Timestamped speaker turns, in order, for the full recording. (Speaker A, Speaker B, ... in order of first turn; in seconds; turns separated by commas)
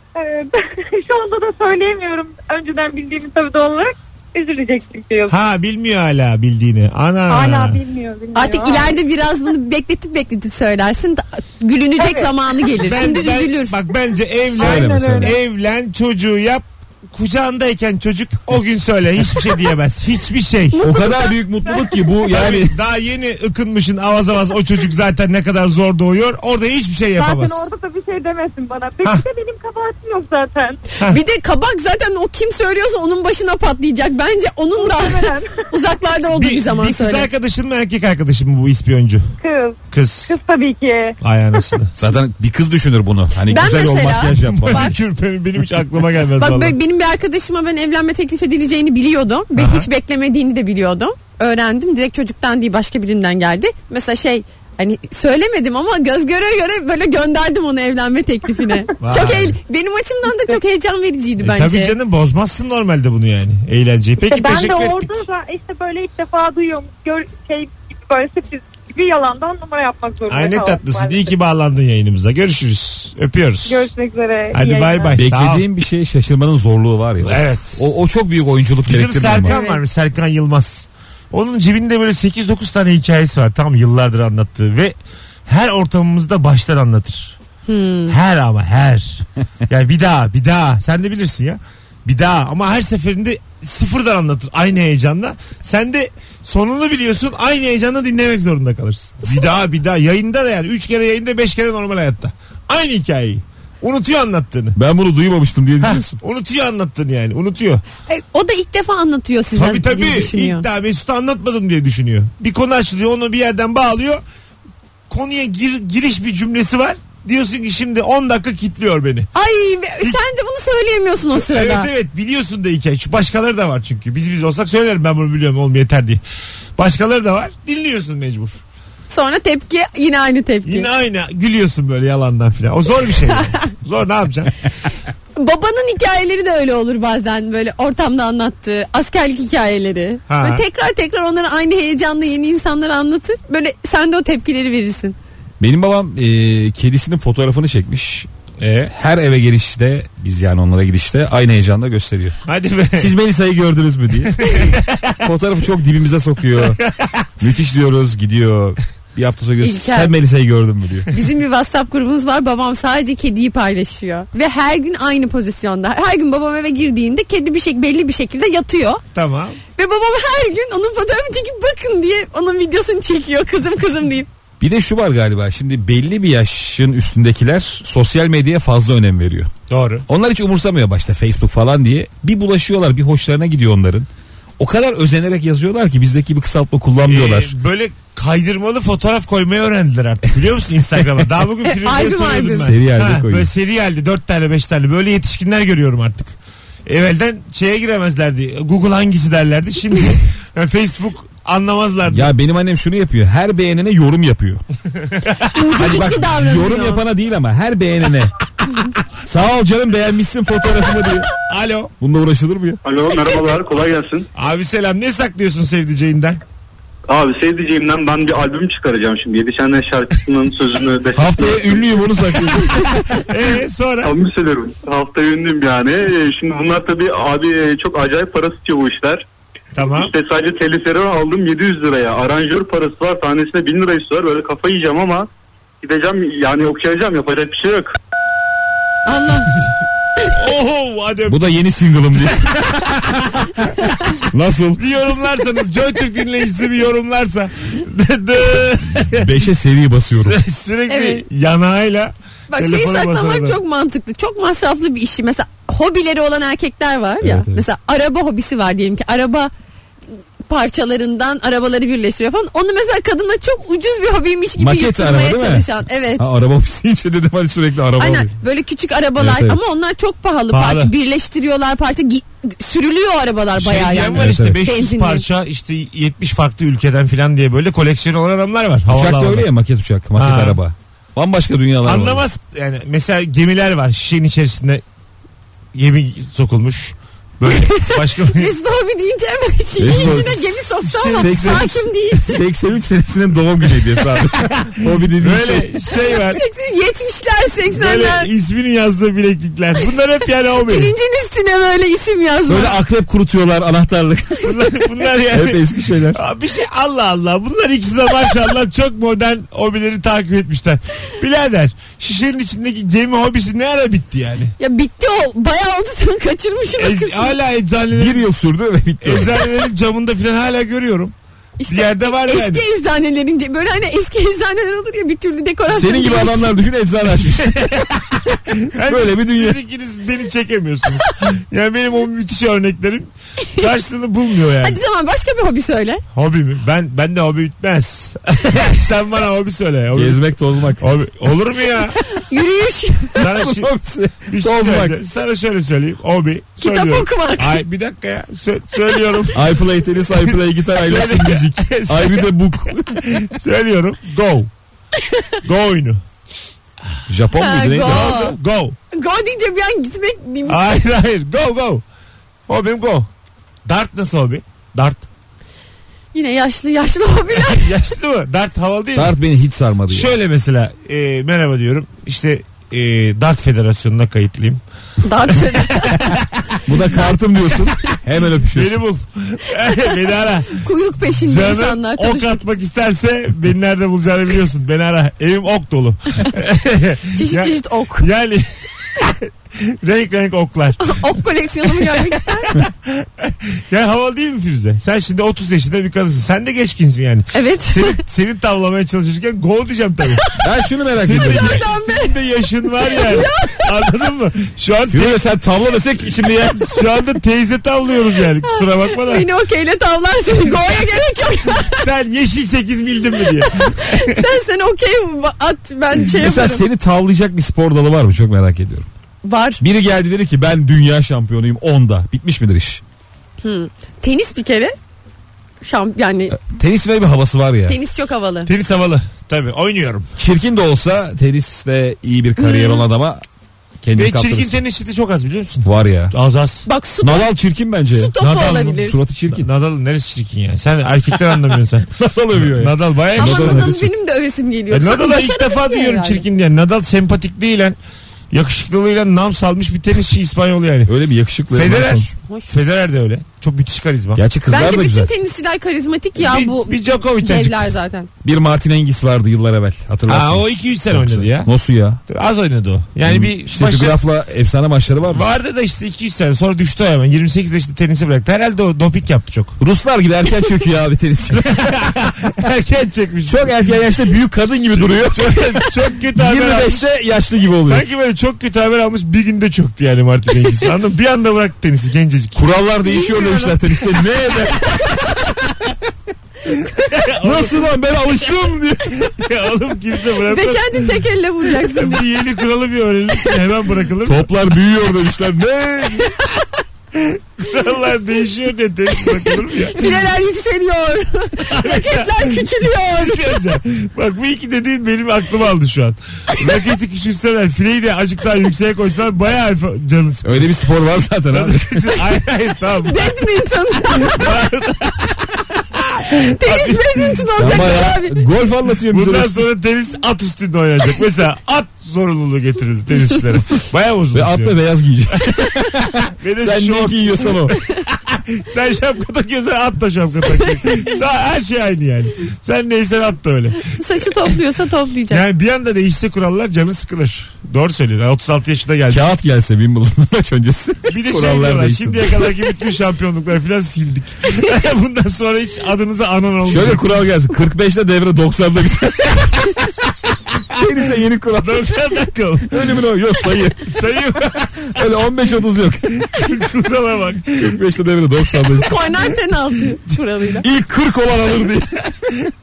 Speaker A: 0.1-5.4, Speaker B: 5.3-7.8, Speaker A: 7.3-9.0, Speaker C: 8.3-13.8, Speaker A: 12.0-12.3, Speaker B: 12.7-20.8, Speaker A: 14.5-15.4, Speaker D: 14.6-15.3, Speaker C: 20.7-21.3, Speaker D: 20.8-22.8, Speaker A: 21.6-21.9, Speaker B: 22.3-27.6, Speaker A: 27.1-30.8, Speaker C: 31.0-37.3, Speaker A: 34.7-35.7, Speaker B: 36.3-39.2, Speaker A: 39.4-41.2, Speaker B: 39.9-40.3, Speaker B: 41.2-41.9, Speaker D: 42.0-44.9, Speaker C: 43.5-44.9, Speaker B: 44.4-46.8, Speaker C: 46.4-61.9, Speaker B: 49.5-49.9, Speaker B: 59.0-59.6, Speaker A: 60.3-60.6, Speaker B: 61.4-65.2, Speaker A: 64.2-71.3, Speaker B: 70.3-73.9, Speaker A: 73.7-75.1, Speaker B: 74.5-75.6, Speaker D: 75.2-79.5, Speaker B: 77.2-77.8, Speaker B: 78.8-84.9, Speaker C: 79.5-79.8, Speaker B: 85.5-87.4, Speaker C: 87.7-88.2, Speaker B: 88.1-104.8, Speaker D: 104.8-106.2, Speaker B: 105.8-107.8, Speaker C: 108.1-110.6, Speaker B: 109.5-114.2, Speaker B: 115.1-119.3, Speaker C: 119.3-121.9, Speaker B: 121.3-126.2, Speaker B: 126.8-128.6, Speaker C: 129.1-130.9, Speaker B: 130.6-134.5, Speaker C: 135.4-145.2, Speaker B: 140.3-140.6, Speaker D: 145.6-148.3, Speaker B: 148.6-148.9, Speaker D: 148.9-152.3, Speaker B: 152.4-153.1, Speaker D: 152.9-154.7, Speaker B: 154.4-155.2, Speaker D: 155.2-156.8, Speaker B: 156.6-157.3, Speaker D: 157.4-161.1, Speaker C: 159.6-160.1, Speaker C: 161.1-169.0, Speaker B: 169.1-169.6, Speaker C: 169.8-174.3, Speaker D: 174.6-179.5, Speaker B: 179.7-180.1, Speaker D: 180.1-184.1, Speaker D: 184.6-187.5, Speaker B: 187.1-202.3, Speaker C: 191.6-192.7, Speaker D: 192.6-193.5, Speaker D: 202.1-204.6, Speaker B: 205.0-205.5, Speaker C: 205.5-207.0, Speaker D: 205.8-208.3, Speaker D: 209.2-211.3, Speaker B: 211.4-211.9, Speaker D: 212.0-212.8, Speaker E: 212.8-214.3, Speaker B: 214.3-216.4, Speaker E: 217.1-221.9, Speaker D: 221.1-223.2, Speaker B: 223.2-224.1, Speaker E: 224.0-229.2, Speaker B: 229.7-230.1, Speaker E: 229.9-235.3, Speaker E: 235.8-237.9, Speaker C: 239.1-239.5, Speaker B: 240.3-241.4, Speaker D: 241.3-242.9, Speaker B: 242.7-243.5, Speaker D: 244.2-244.8, Speaker B: 244.8-249.4, Speaker D: 249.1-250.4, Speaker B: 250.1-253.6, Speaker C: 250.9-251.2, Speaker C: 252.5-259.5, Speaker D: 257.2-257.6, Speaker C: 260.5-266.2, Speaker D: 264.6-268.3, Speaker C: 268.0-275.2, Speaker D: 269.2-269.6, Speaker B: 270.5-270.9, Speaker B: 273.5-279.5, Speaker D: 274.1-274.6, Speaker D: 278.9-282.2, Speaker B: 280.1-280.6, Speaker B: 281.8-284.8, Speaker B: 285.7-288.5, Speaker C: 287.5-292.4, Speaker D: 289.8-295.7, Speaker B: 290.8-291.9, Speaker B: 295.1-296.4, Speaker C: 296.1-298.3, Speaker B: 297.7-300.9, Speaker C: 300.6-302.8, Speaker D: 302.5-304.6, Speaker B: 304.4-314.5, Speaker D: 305.3-306.2, Speaker C: 314.6-317.4, Speaker B: 316.8-318.2, Speaker D: 317.9-319.4, Speaker B: 319.0-321.1, Speaker C: 321.6-326.5, Speaker B: 321.7-322.6, Speaker D: 325.7-327.6, Speaker B: 327.2-334.8, Speaker D: 328.9-329.6, Speaker C: 334.6-336.0, Speaker B: 336.1-340.2, Speaker D: 339.9-340.9, Speaker B: 340.8-342.0, Speaker C: 342.0-343.2, Speaker D: 343.2-344.9, Speaker B: 343.2-343.7, Speaker B: 344.3-349.5, Speaker C: 346.6-347.6, Speaker D: 349.3-352.8, Speaker B: 350.2-354.5, Speaker C: 355.1-355.4, Speaker B: 355.4-356.0, Speaker D: 357.1-358.1, Speaker C: 357.4-358.3, Speaker B: 357.8-358.8, Speaker C: 358.9-360.6, Speaker B: 360.5-361.8, Speaker B: 362.5-363.1, Speaker B: 363.6-365.1, Speaker C: 366.1-367.7, Speaker B: 367.3-369.2, Speaker D: 368.9-370.1, Speaker B: 369.9-374.6, Speaker C: 375.0-376.2, Speaker B: 375.3-376.6, Speaker D: 376.6-378.8, Speaker B: 378.5-380.6, Speaker C: 379.6-382.4, Speaker B: 381.2-400.2, Speaker C: 387.1-388.1, Speaker C: 390.8-392.5, Speaker C: 397.3-398.0, Speaker D: 400.4-401.6, Speaker B: 401.0-405.2, Speaker C: 401.1-402.1, Speaker C: 402.8-403.7, Speaker D: 404.9-406.7, Speaker B: 406.6-409.2, Speaker C: 408.4-411.9, Speaker B: 411.8-414.3, Speaker C: 413.2-416.6, Speaker D: 416.0-418.9, Speaker C: 419.2-419.6, Speaker D: 419.6-422.8, Speaker C: 423.4-424.7, Speaker C: 425.6-426.4, Speaker D: 426.3-427.8, Speaker C: 427.7-428.5, Speaker B: 428.5-430.1, Speaker D: 430.2-433.2, Speaker C: 432.4-432.9, Speaker D: 433.8-434.6, Speaker B: 433.9-436.6, Speaker D: 435.6-436.1, Speaker C: 436.6-437.3, Speaker D: 437.0-439.5, Speaker C: 437.9-438.9, Speaker B: 438.2-443.8, Speaker D: 441.9-443.9, Speaker C: 443.2-446.2, Speaker B: 444.7-447.8, Speaker B: 448.3-450.9, Speaker D: 450.9-452.1, Speaker B: 451.5-454.2, Speaker C: 452.3-452.5, Speaker D: 454.1-455.1, Speaker C: 454.5-458.1, Speaker B: 456.2-457.6, Speaker D: 458.2-462.0, Speaker B: 460.1-461.5, Speaker B: 462.1-464.0, Speaker D: 463.0-465.3, Speaker B: 465.1-469.6, Speaker D: 469.6-471.7, Speaker B: 471.3-473.8, Speaker D: 473.3-477.8, Speaker B: 474.7-476.9, Speaker B: 477.6-482.4, Speaker D: 482.3-485.2, Speaker C: 482.9-483.6, Speaker B: 486.8-487.7, Speaker D: 487.2-489.1, Speaker B: 489.0-494.3, Speaker C: 490.3-492.0, Speaker D: 494.0-496.1, Speaker B: 496.9-500.1, Speaker C: 499.1-503.4, Speaker B: 501.5-510.5, Speaker D: 510.2-512.0, Speaker B: 511.3-513.3, Speaker C: 512.8-514.3, Speaker B: 513.9-517.7, Speaker C: 516.1-518.2, Speaker D: 517.4-519.4, Speaker B: 518.9-524.5, Speaker D: 524.1-527.6, Speaker B: 526.1-533.6, Speaker C: 533.7-535.2, Speaker B: 535.1-539.1, Speaker D: 538.9-542.3, Speaker B: 540.9-547.0, Speaker D: 546.5-549.7, Speaker D: 550.5-553.8, Speaker B: 551.4-552.8, Speaker B: 553.7-554.9, Speaker D: 554.7-556.1, Speaker B: 556.1-557.5, Speaker D: 557.4-558.8, Speaker C: 558.5-560.5, Speaker D: 560.4-562.1